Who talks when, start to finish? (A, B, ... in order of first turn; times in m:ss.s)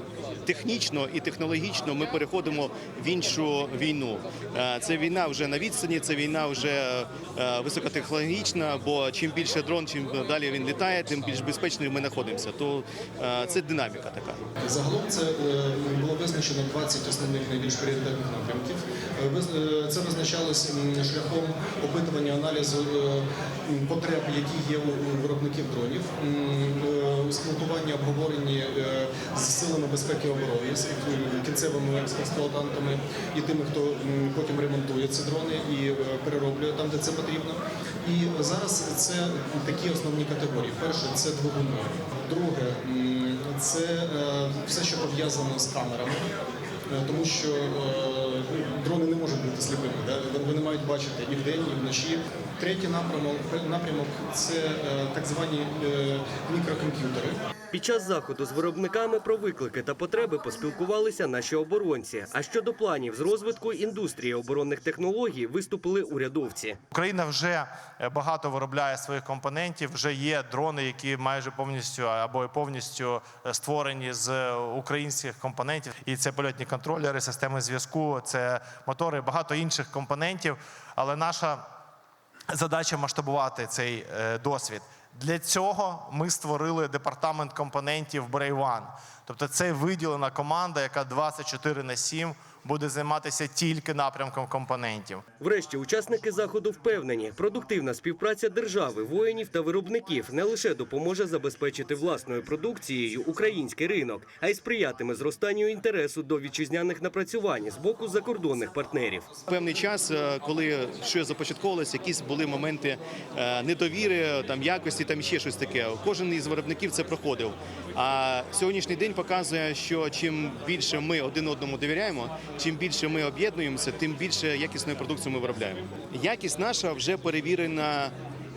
0:00.4-0:14.4 A
0:14.6-0:46.2 B
0:46.9-0:57.4 B
0:57.7-1:06.8 C
1:06.9-1:21.6 D
1:22.5-1:35.2 D
1:35.4-1:49.3 C
1:49.5-2:08.1 A